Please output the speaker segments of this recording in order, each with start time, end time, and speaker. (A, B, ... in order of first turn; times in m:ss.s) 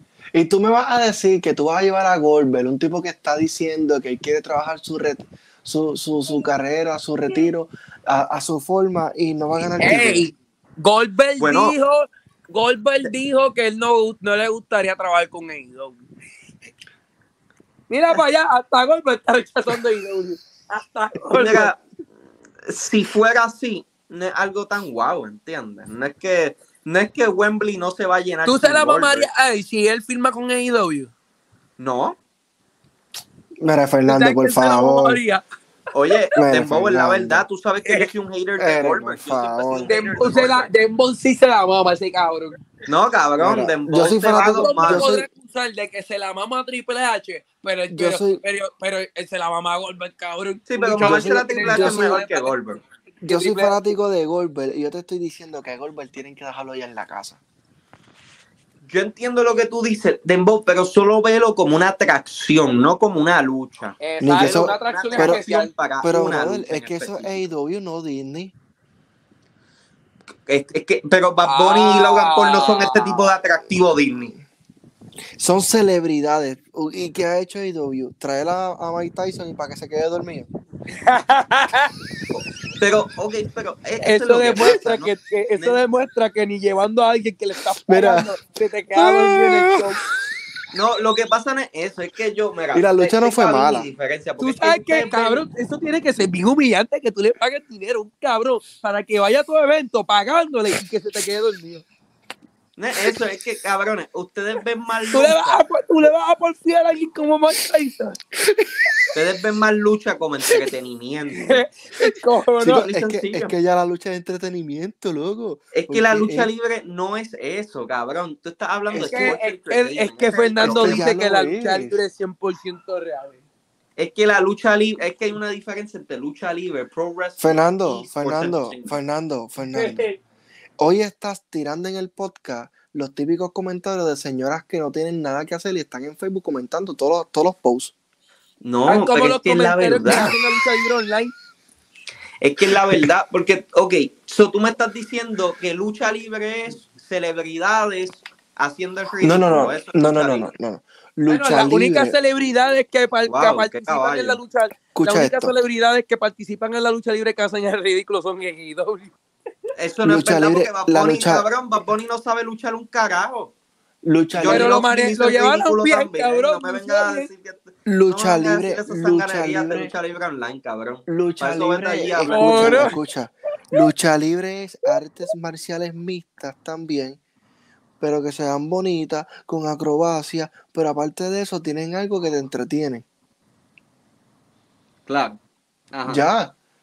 0:00.3-0:10.3 A
0:09.8-0:16.0 B
0:11.4-0:11.8 C
0:17.9-0:21.7 B
0:21.3-0:21.8 C
0:22.7-0:29.3 C
0:28.5-0:31.1 B
0:31.8-0:32.2 C
0:33.6-0:35.2 A
0:34.1-0:35.4 B
0:35.9-0:40.7 C
0:36.4-0:37.4 A
0:37.8-0:38.1 B
0:38.6-0:39.9 A
0:39.9-0:42.6 B
0:42.9-0:45.1 C
0:43.4-0:45.3 A
0:44.3-0:52.6 B
0:47.9-0:48.4 A
0:50.7-0:52.8 C
0:51.0-0:52.2 A
0:53.2-0:57.4 A
0:53.3-0:53.8 B
0:58.8-1:07.4 C
1:04.0-1:05.7 B
1:04.2-1:05.4 A
1:06.0-1:08.5 A
1:10.5-1:14.3 C
1:11.4-1:13.2 B
1:15.4-1:20.5 A
1:20.9-1:21.9 B
1:22.3-1:25.8 C
1:24.0-1:30.0 B
1:27.9-1:28.4 A
1:28.9-1:29.9 A
1:30.7-1:35.4 C
1:32.7-1:33.9 A
1:34.4-1:41.8 B
1:42.8-1:45.6 C
1:45.1-1:48.2 B
1:49.1-1:51.6 C
1:51.4-1:52.9 B
1:52.6-1:56.5 A
1:52.6-1:53.5 C
1:55.7-2:01.0 C
1:58.9-2:03.4 B
1:59.0-1:59.4 A
2:00.6-2:02.0 A
2:04.0-2:09.0 C
2:07.4-2:10.1 A
2:09.7-2:10.2 B
2:10.8-2:17.9 A
2:18.6-2:20.3 C
2:18.9-2:21.3 B
2:22.4-2:30.5 C
2:29.2-2:32.2 A
2:31.3-2:39.1 B
2:33.3-2:34.4 C
2:35.0-2:35.5 A
2:39.8-2:43.5 C
2:40.0-2:41.5 A
2:44.0-2:44.8 A
2:44.3-2:52.9 C
2:44.5-2:47.3 B
2:47.9-2:49.9 A
2:51.1-2:57.2 A
2:52.3-2:53.0 B
2:58.0-3:03.0 A
3:05.1-3:05.4 C
3:05.9-3:06.3 C
3:06.1-3:06.6 A